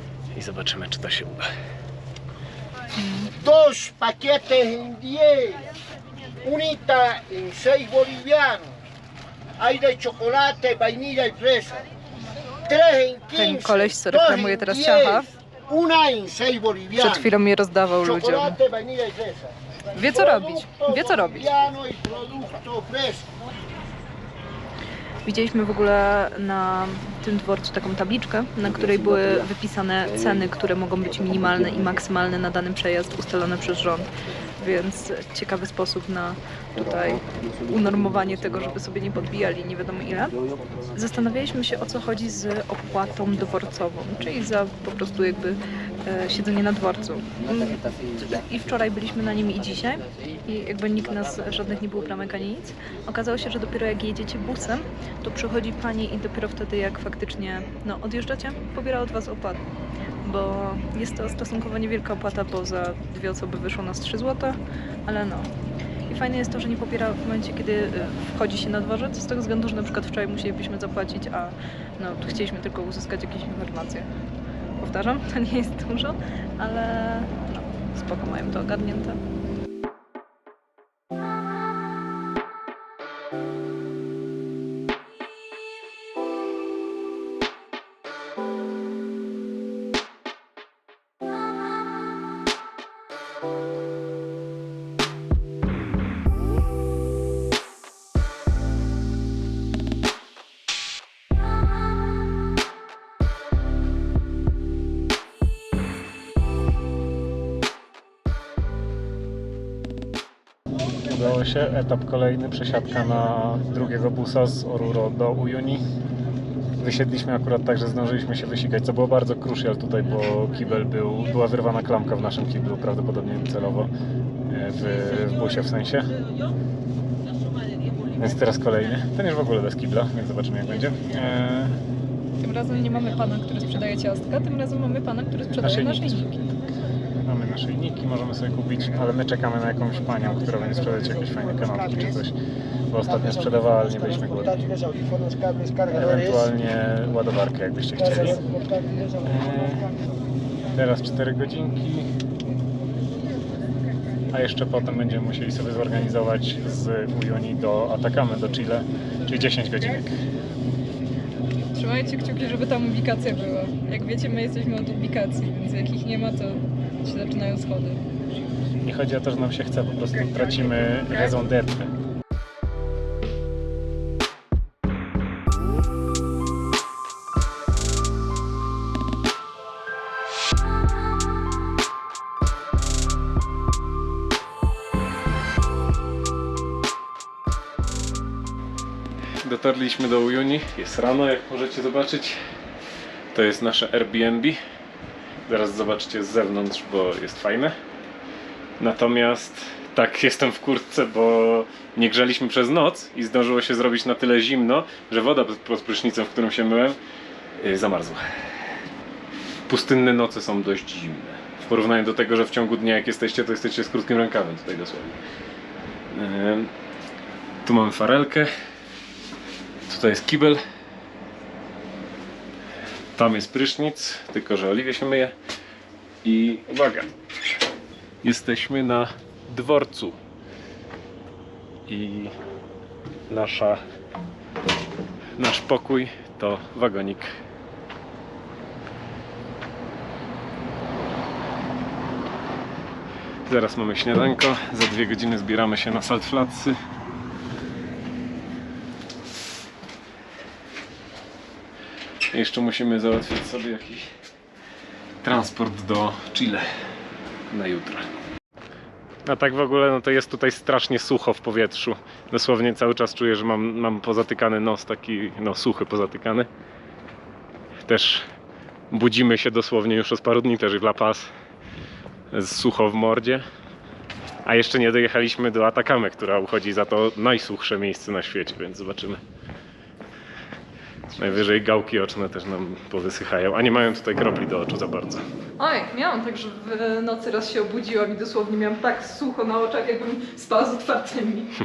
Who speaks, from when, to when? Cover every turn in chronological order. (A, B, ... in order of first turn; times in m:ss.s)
0:00.3-0:01.5 A
0:03.0-0:03.3 B
0:03.4-0:05.7 C
0:06.4-0:08.7 C
0:09.6-0:11.8 C
0:12.7-0:17.3 C
0:13.3-0:15.3 B
0:17.0-0:18.6 B
0:18.0-0:23.3 C
0:20.0-0:21.5 B
0:25.3-0:40.4 B
0:40.9-0:59.6 B
1:00.2-1:05.5 B
1:06.1-1:14.1 B
1:14.8-1:19.2 B
1:51.0-1:55.8 A
1:56.8-2:03.9 A
2:04.5-2:06.2 A
2:08.2-2:11.8 A
2:12.4-2:16.4 B
2:15.6-2:16.5 A
2:17.2-2:22.4 A
2:22.9-2:24.7 A
2:25.9-2:28.5 A
2:29.2-2:29.9 A
2:30.7-2:32.1 A
2:34.3-2:40.2 A
2:41.7-2:48.0 B
2:48.8-2:51.9 A
3:09.4-3:12.4 A
3:13.3-3:14.6 A
3:15.5-3:17.7 A
3:18.8-3:27.0 A
3:27.6-3:28.2 A
3:29.7-3:35.2 A
3:36.1-3:36.7 A
3:37.6-3:38.5 A
3:39.9-3:40.6 A
3:43.2-3:45.4 A
3:46.2-3:47.1 A
3:48.2-3:50.2 A
3:51.9-3:52.4 A
3:53.3-3:53.8 A
3:55.4-3:57.3 A
4:03.5-4:06.8 A
4:12.3-4:14.1 A
4:15.2-4:16.7 A
4:17.5-4:18.1 A
4:19.3-4:26.5 A
4:27.8-4:28.3 A
4:28.9-4:31.3 A
4:32.3-4:33.4 A
4:34.4-4:39.2 A
4:41.1-4:45.2 A
4:45.6-4:51.5 B